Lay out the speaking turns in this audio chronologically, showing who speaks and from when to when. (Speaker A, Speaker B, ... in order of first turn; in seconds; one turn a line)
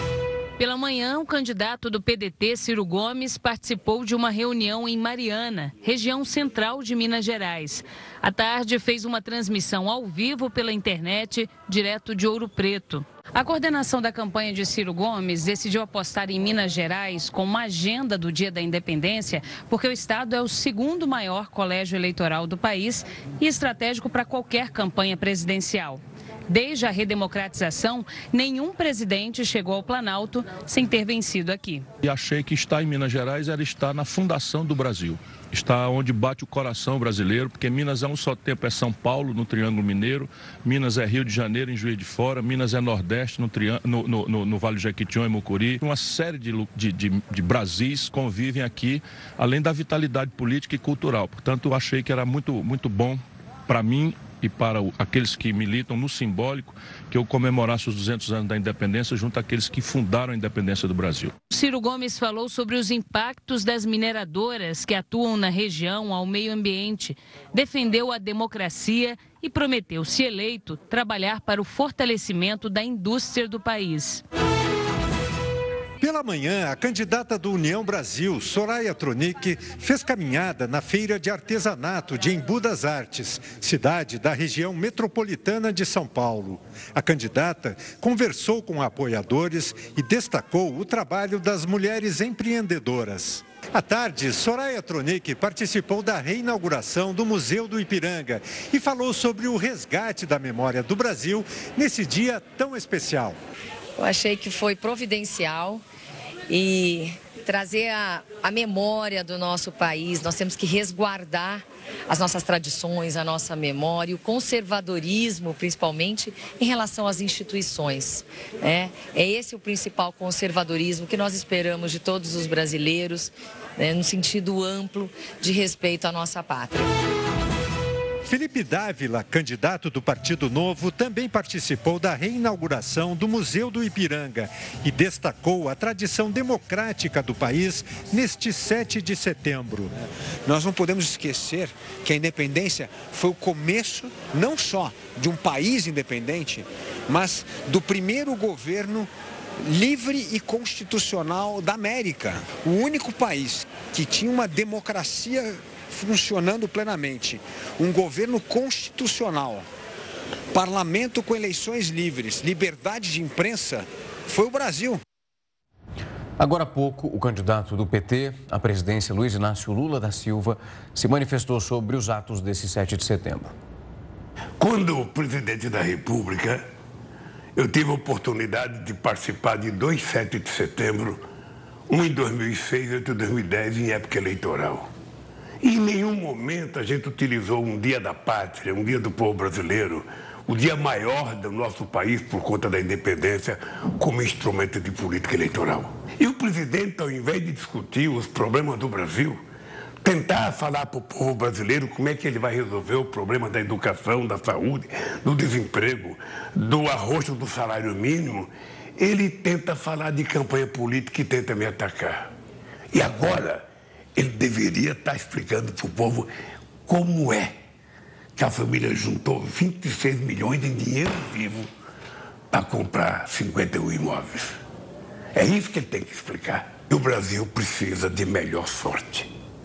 Speaker A: 0.6-31.9
Speaker B: 32.0-61.3
Speaker A: 61.5-74.2
Speaker C: 76.0-103.4
Speaker D: 104.0-105.8
Speaker D: 106.5-126.9
Speaker C: 128.3-139.9
Speaker E: 140.4-159.7
Speaker E: 160.5-165.0
Speaker F: 166.4-173.5
Speaker G: 174.6-176.6
Speaker G: 177.6-181.2
Speaker G: 181.9-184.9
Speaker G: 185.6-199.4
Speaker G: 200.0-212.3
Speaker G: 212.9-213.6
Speaker G: 214.2-216.3
Speaker G: 216.9-217.6
Speaker G: 218.4-221.7
Speaker G: 222.5-224.6
Speaker G: 225.3-229.3